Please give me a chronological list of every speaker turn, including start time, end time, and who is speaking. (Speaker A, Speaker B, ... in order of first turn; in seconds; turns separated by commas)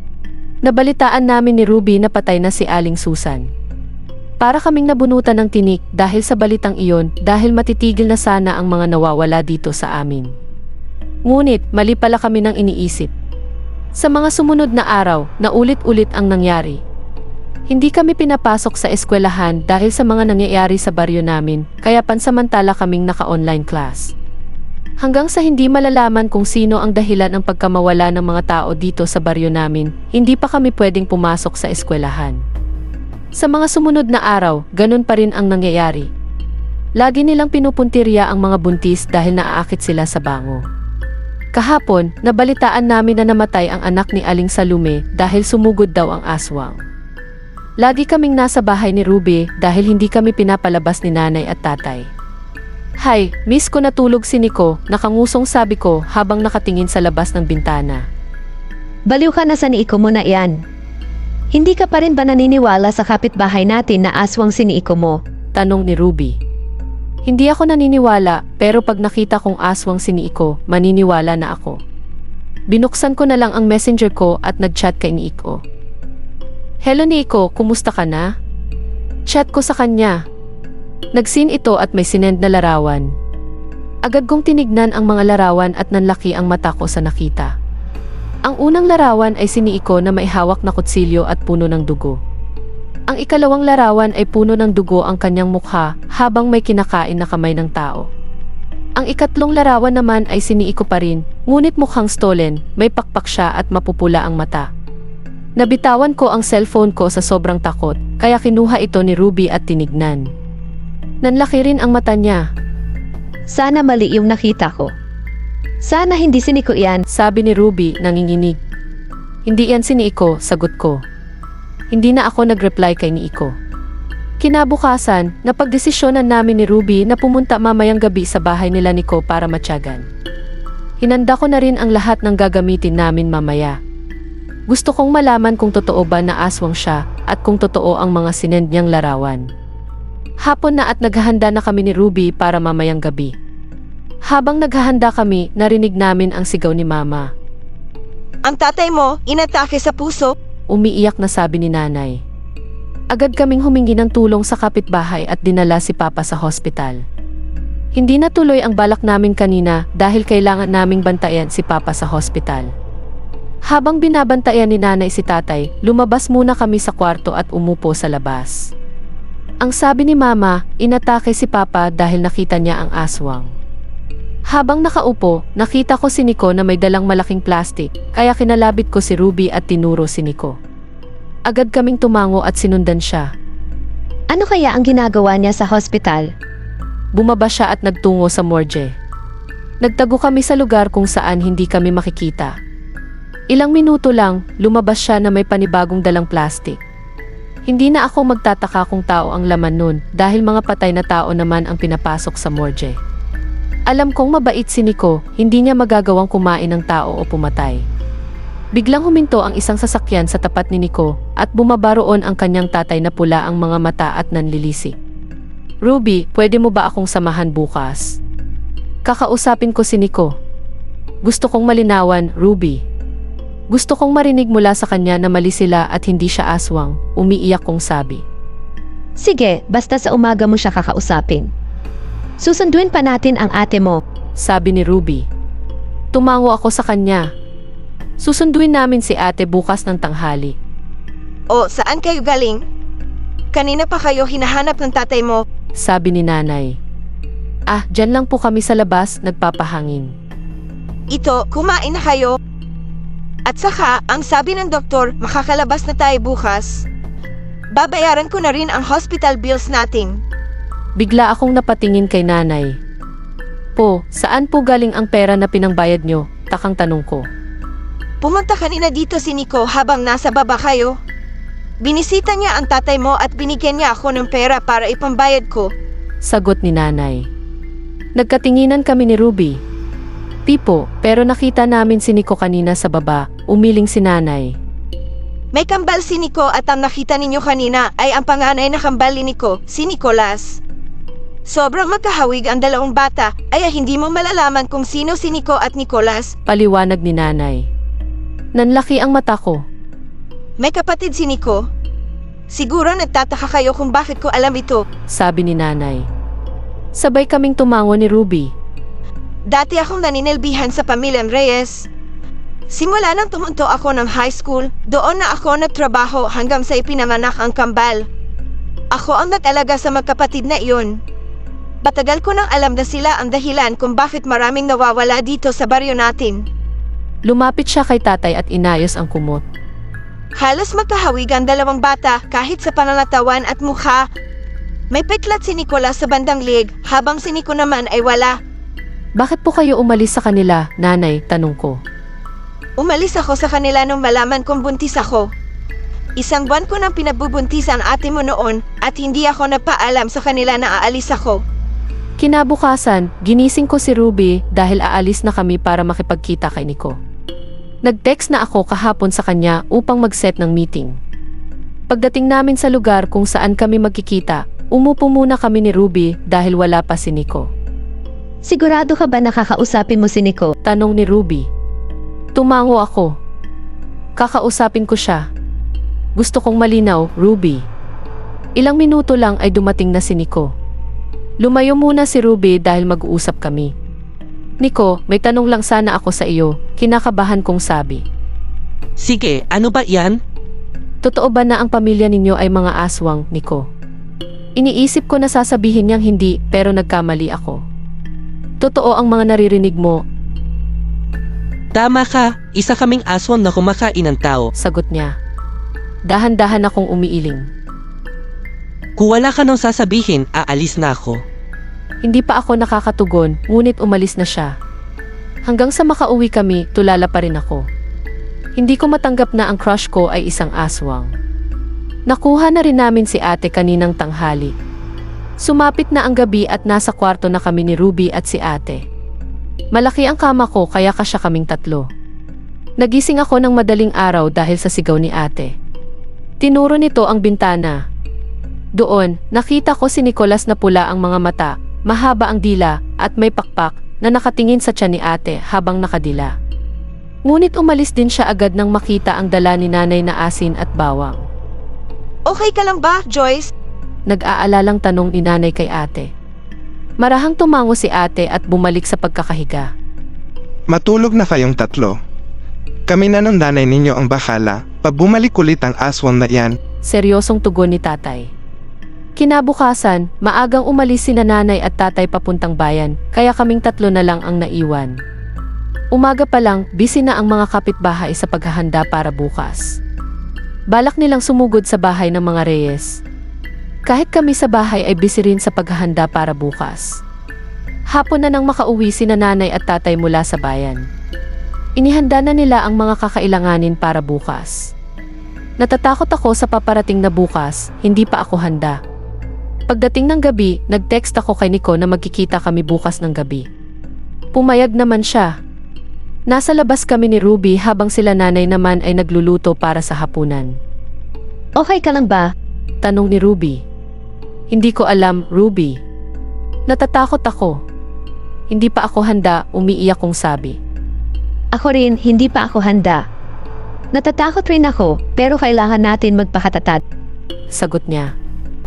Speaker A: 0.6-3.5, Speaker A: 4.4-10.3, Speaker A: 11.3-13.1, Speaker A: 13.9-16.8, Speaker A: 17.7-24.1, Speaker A: 25.0-32.4, Speaker A: 33.3-36.1, Speaker A: 37.0-40.6, Speaker A: 41.5-46.8, Speaker A: 47.8-52.1, Speaker A: 53.0-58.0, Speaker B: 59.1-60.6, Speaker B: 61.5-65.2, Speaker A: 65.5-66.4, Speaker A: 67.2-71.8, Speaker A: 72.7-75.6, Speaker A: 76.8-78.3, Speaker A: 79.3-80.2, Speaker A: 81.1-83.1, Speaker A: 84.0-87.5, Speaker A: 88.4-92.2, Speaker A: 93.1-98.1, Speaker A: 99.0-104.7, Speaker A: 105.6-110.3, Speaker A: 111.2-112.4, Speaker B: 113.5-114.9, Speaker B: 115.8-117.0, Speaker A: 117.1-118.6, Speaker A: 119.5-121.0, Speaker A: 121.9-123.5, Speaker A: 124.4-130.1, Speaker A: 131.0-133.8, Speaker A: 134.7-139.5, Speaker A: 140.4-143.3, Speaker A: 144.3-147.3, Speaker C: 148.4-150.3, Speaker A: 150.7-152.2, Speaker A: 153.1-157.0, Speaker A: 157.9-162.7, Speaker A: 163.7-168.7, Speaker A: 169.6-173.5, Speaker A: 174.5-180.6, Speaker A: 181.5-183.3, Speaker B: 184.3-186.3, Speaker A: 187.1-188.9, Speaker A: 189.8-192.5, Speaker A: 193.5-196.8, Speaker A: 197.7-203.0, Speaker A: 203.9-207.8, Speaker A: 208.7-215.0, Speaker A: 215.8-218.2, Speaker A: 219.0-220.3, Speaker A: 221.2-222.8, Speaker A: 223.7-228.2, Speaker B: 229.2-231.5, Speaker B: 232.4-234.0, Speaker A: 234.4-235.3, Speaker A: 236.1-237.3, Speaker A: 238.2-240.6, Speaker C: 241.5-242.6, Speaker C: 243.5-245.4, Speaker A: 245.8-246.7, Speaker A: 247.7-250.1, Speaker C: 251.1-252.3, Speaker C: 253.5-256.8, Speaker C: 257.7-260.2, Speaker A: 261.0-262.7, Speaker A: 263.8-267.2, Speaker C: 268.2-270.9, Speaker C: 271.8-275.7, Speaker A: 276.2-277.3, Speaker A: 278.1-279.6, Speaker A: 280.4-284.6, Speaker C: 285.5-290.6, Speaker C: 291.4-296.3, Speaker A: 296.4-297.7, Speaker A: 298.5-299.6, Speaker C: 300.6-301.6, Speaker C: 302.5-304.8, Speaker A: 305.1-306.1, Speaker A: 306.9-308.5, Speaker C: 309.5-311.9, Speaker C: 312.7-318.0, Speaker C: 318.9-320.9, Speaker C: 321.8-326.4, Speaker A: 327.2-329.4, Speaker C: 330.4-334.0, Speaker C: 334.9-338.4, Speaker A: 339.2-341.8, Speaker C: 342.8-345.3, Speaker C: 346.2-351.4, Speaker A: 352.2-357.0, Speaker A: 357.8-361.0, Speaker A: 361.9-367.5, Speaker B: 368.4-370.5, Speaker A: 370.6-371.5, Speaker A: 372.3-373.1, Speaker A: 374.2-375.2, Speaker A: 376.2-377.6, Speaker A: 378.6-380.5, Speaker A: 381.4-383.7, Speaker A: 384.6-388.0, Speaker D: 389.0-390.2, Speaker A: 391.0-393.7, Speaker A: 394.6-397.6, Speaker A: 398.6-400.0, Speaker D: 401.7-404.5, Speaker A: 404.6-405.1, Speaker A: 406.1-407.5, Speaker D: 409.0-411.2, Speaker A: 412.0-414.5, Speaker A: 415.4-417.7, Speaker A: 418.6-421.1, Speaker A: 422.1-424.5, Speaker A: 425.4-428.9, Speaker A: 429.7-431.9, Speaker A: 432.8-435.6, Speaker A: 436.4-437.8, Speaker A: 438.8-446.3, Speaker A: 447.2-451.2, Speaker C: 452.3-453.5, Speaker A: 454.1-456.1, Speaker A: 457.0-459.7, Speaker E: 460.7-461.9, Speaker E: 462.9-466.6, Speaker A: 466.8-468.3, Speaker A: 469.2-475.0, Speaker A: 475.9-479.8, Speaker A: 480.7-483.0, Speaker A: 483.9-487.0, Speaker A: 487.9-490.8, Speaker A: 491.8-494.7, Speaker A: 495.6-498.8, Speaker A: 499.7-503.5, Speaker A: 504.3-505.3, Speaker A: 506.3-510.5, Speaker B: 511.6-512.3, Speaker A: 512.8-513.6, Speaker A: 514.5-515.8, Speaker A: 516.7-517.5, Speaker A: 518.5-520.6, Speaker B: 521.5-523.0, Speaker B: 523.9-526.8, Speaker A: 527.5-528.1